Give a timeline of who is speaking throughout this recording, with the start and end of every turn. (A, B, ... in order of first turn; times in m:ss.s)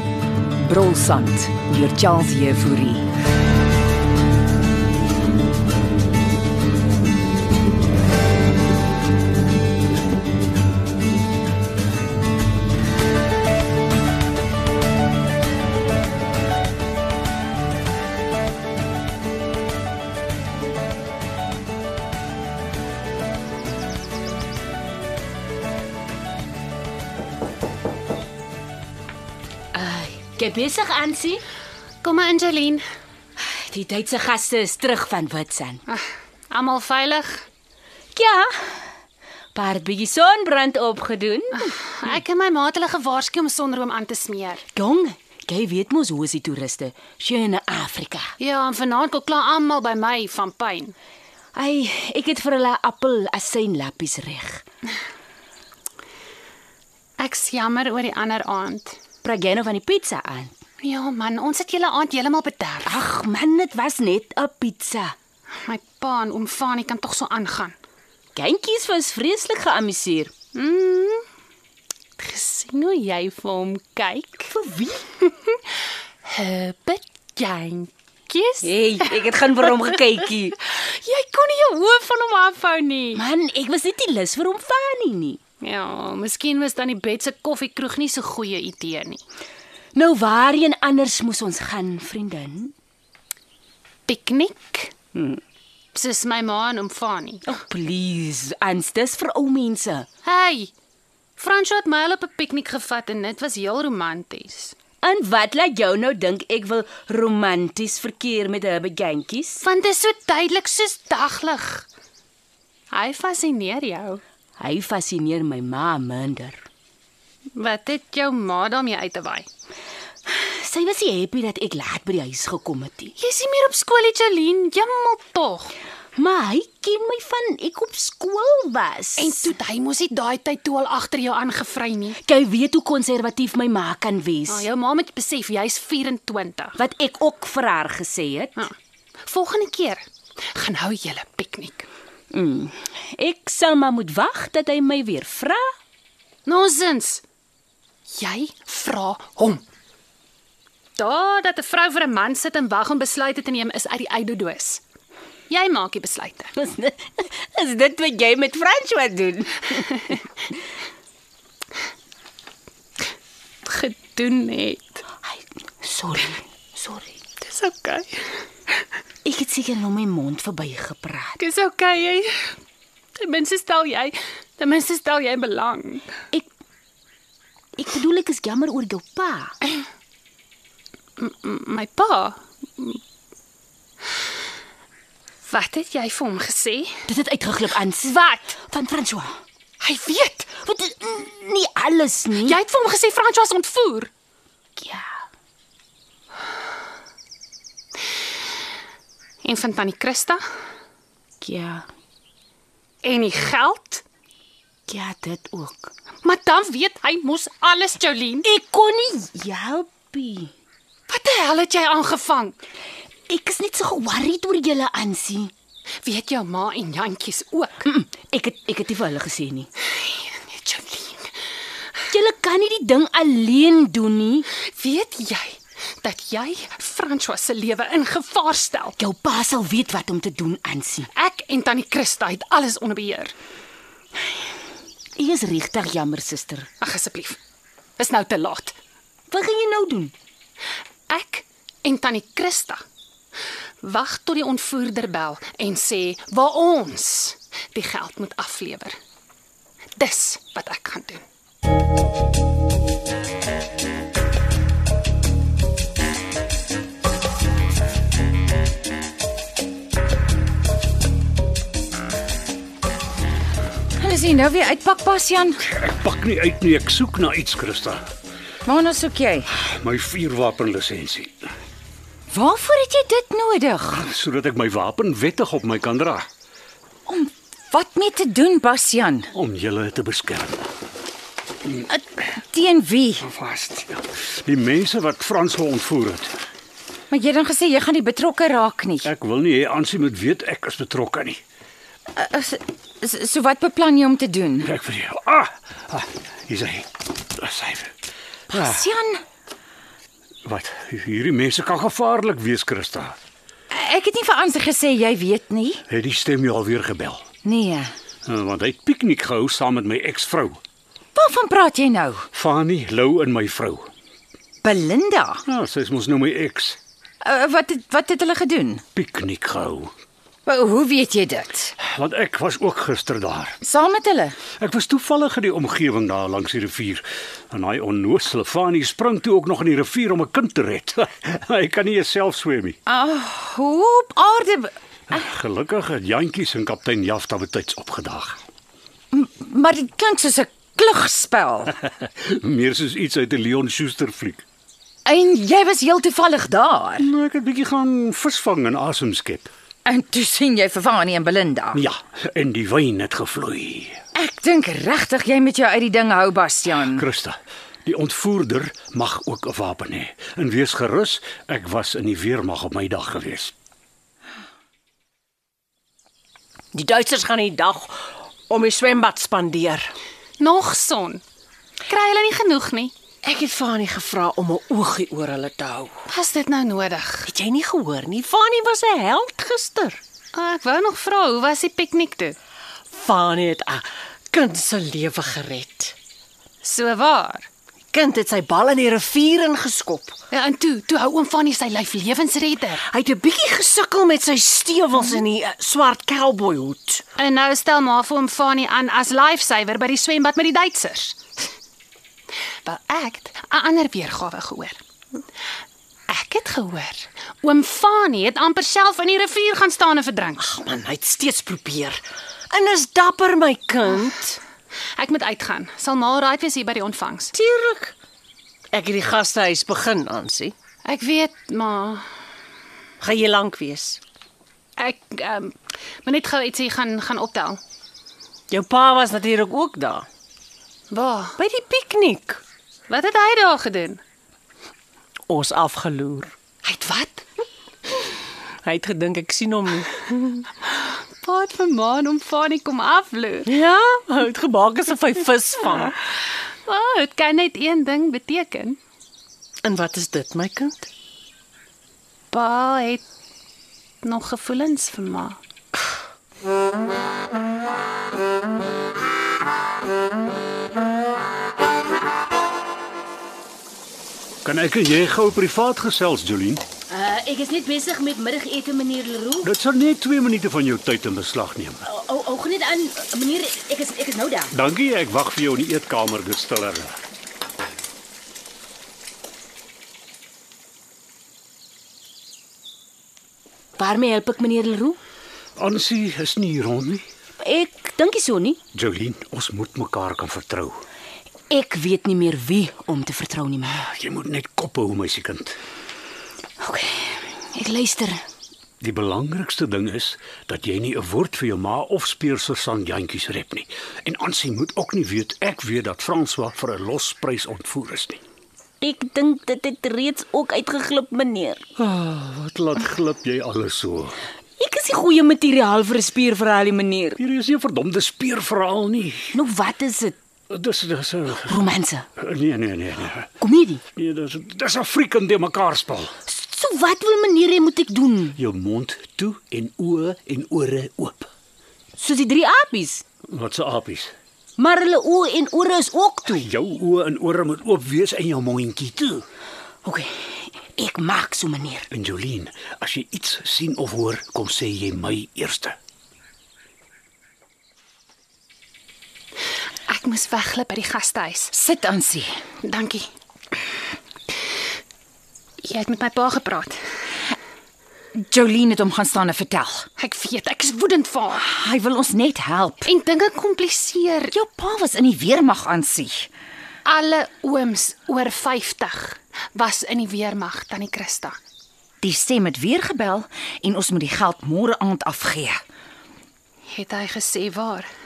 0:00.6-0:03.1 A
0:29.7-0:31.4 B
0:32.0-0:32.8 C
0:33.4-0:35.8 B
0:35.9-0:37.4 C
0:38.1-0:38.8 B
0:39.5-0:41.7 B
0:41.6-0:44.6 C
0:44.7-0:48.3 B
0:48.4-0:50.9 C
0:51.5-0:54.6 B
0:57.2-0:59.0 C
0:59.2-1:00.5 B
1:00.8-1:02.9 C
1:02.8-1:05.1 B
1:05.6-1:07.7 C
1:08.3-1:10.3 B
1:10.5-1:11.2 C
1:12.2-1:14.5 C
1:14.5-1:15.1 B
1:16.2-1:18.7 C
1:18.6-1:20.6 B
1:20.6-1:23.2 C
1:23.1-1:25.4 B
1:25.6-1:29.2 C
1:29.9-1:32.7 B
1:34.1-1:34.9 C
1:35.1-1:35.4 B
1:35.9-1:37.5 C
1:37.5-1:40.1 B
1:40.2-1:40.7 C
1:41.4-1:44.7 C
1:45.0-1:49.6 B
1:49.6-1:51.8 C
1:52.9-1:54.2 C
1:54.6-1:56.6 B
1:57.6-1:59.5 C
2:00.3-2:03.1 B
2:03.2-2:05.7 C
2:06.2-2:09.5 B
2:09.2-2:12.2 C
2:12.2-2:14.6 B
2:14.5-2:16.8 C
2:16.8-2:18.6 B
2:19.2-2:20.0 C
2:20.5-2:21.9 C
2:22.3-2:25.7 B
2:26.4-2:27.2 C
2:28.2-2:29.6 C
2:31.0-2:34.8 C
2:35.5-2:36.5 C
2:36.6-2:40.2 B
2:43.6-2:45.0 C
2:45.8-2:47.1 B
2:47.4-2:48.2 C
2:49.2-2:51.4 B
2:51.4-2:52.5 C
2:53.2-2:56.1 C
2:57.8-2:59.5 B
3:01.2-3:03.0 C
3:05.5-3:07.0 C
3:07.1-3:09.3 B
3:08.0-3:08.6 C
3:09.8-3:10.5 C
3:10.6-3:12.6 B
3:12.3-3:14.1 C
3:14.8-3:15.1 B
3:19.4-3:20.4 C
3:21.4-3:21.8 B
3:23.0-3:24.0 C
3:24.9-3:25.9 B
3:26.2-3:28.5 C
3:28.4-3:30.5 B
3:31.1-3:32.5 C
3:33.3-3:35.5 B
3:36.0-3:37.8 C
3:37.8-3:39.7 B
3:40.0-3:41.3 C
3:42.1-3:44.5 B
3:44.7-3:49.0 C
3:49.0-3:51.1 B
3:51.1-3:53.3 C
3:55.2-3:56.7 B
3:56.8-3:57.4 C
3:58.0-3:58.8 C
3:59.3-4:00.1 B
4:01.1-4:02.8 C
4:03.8-4:09.0 C
4:10.0-4:11.2 C
4:24.0-4:25.6 D
4:25.7-4:28.0 E
4:28.6-4:29.5 D
4:29.5-4:31.5 E
4:32.3-4:34.1 D
4:33.9-4:36.3 E
4:37.1-4:39.3 D
4:39.3-4:40.7 E
4:42.3-4:43.3 D
4:43.2-4:46.3 E
4:47.1-4:49.1 D
4:49.0-4:51.4 E
4:52.1-4:54.7 D
4:54.6-4:57.9 E
4:58.5-4:59.2 D
4:58.5-4:58.8 E
5:00.4-5:03.2 E
5:03.7-5:05.8 D
5:05.9-5:07.2 E
5:07.4-5:07.9 D
5:08.2-5:10.6 E
5:11.2-5:12.2 D
5:12.3-5:13.9 E
5:14.6-5:15.4 D
5:15.4-5:16.8 E
5:17.2-5:18.8 D
5:18.9-5:19.9 E
5:20.4-5:21.7 D
5:21.8-5:23.6 E
5:23.6-5:24.4 D
5:24.6-5:32.8 E
5:32.9-5:34.7 D
5:35.1-5:38.4 E
5:39.1-5:41.8 D
5:42.2-5:44.4 E
5:45.0-5:47.1 D
5:47.0-5:49.5 E
5:49.8-5:51.8 D
5:51.7-5:54.0 E
5:54.1-5:57.0 D
5:56.7-6:03.5 E
6:06.7-6:09.9 F
6:10.4-6:11.2 C
6:11.9-6:12.9 C
6:13.2-6:16.0 F
6:16.1-6:17.3 C
6:17.2-6:20.0 F
6:20.3-6:22.4 C
6:22.9-6:25.9 F
6:26.6-6:27.5 C
6:27.9-6:30.2 F
6:30.3-6:32.9 C
6:32.8-6:37.0 F
6:37.2-6:41.2 C
6:42.6-6:44.8 C
6:46.1-6:50.5 C
6:50.4-6:54.4 F
6:55.0-6:57.3 C
6:57.3-6:57.9 F
6:58.7-7:00.5 F
7:00.8-7:02.1 C
7:03.0-7:04.0 F
7:04.8-7:07.6 C
7:08.5-7:10.1 F
7:10.9-7:11.4 C
7:11.4-7:12.4 F
7:12.9-7:14.0 C
7:15.3-7:16.3 F
7:16.6-7:17.2 C
7:18.6-7:20.4 F
7:20.6-7:23.5 C
7:23.4-7:26.0 F
7:26.6-7:28.8 C
7:29.6-7:30.9 F
7:32.3-7:33.0 C
7:34.0-7:35.4 C
7:44.4-7:46.6 E
7:46.9-7:49.5 B
7:49.4-7:51.8 E
7:51.8-7:54.5 B
7:54.5-7:57.0 E
8:03.8-8:05.0 B
8:05.6-8:07.0 E
8:07.4-8:08.6 B
8:08.7-8:10.8 E
8:11.5-8:13.8 B
8:13.7-8:15.6 E
8:16.6-8:18.2 B
8:18.8-8:28.2 E
8:28.8-8:31.6 B
8:31.8-8:34.2 E
8:34.6-8:37.2 B
8:37.2-8:39.3 E
8:39.3-8:40.1 B
8:40.5-8:41.6 E
8:41.5-8:42.0 B
8:42.2-8:43.3 E
8:43.4-8:43.8 B
8:44.0-8:46.1 E
8:46.3-8:48.4 B
8:48.4-8:51.3 E
8:52.0-8:53.0 B
8:53.3-8:54.1 E
8:54.6-8:56.5 B
8:56.3-8:59.2 E
8:59.8-9:01.8 B
9:01.9-9:05.8 E
9:09.9-9:11.5 C
9:11.5-9:12.3 D
9:12.6-9:13.0 C
9:15.6-9:16.8 C
9:18.1-9:19.9 D
9:20.0-9:21.4 C
9:21.3-9:22.9 D
9:22.8-9:24.3 C
9:24.3-9:26.3 D
9:26.8-9:31.4 C
9:32.0-9:35.6 D
9:36.7-9:37.9 C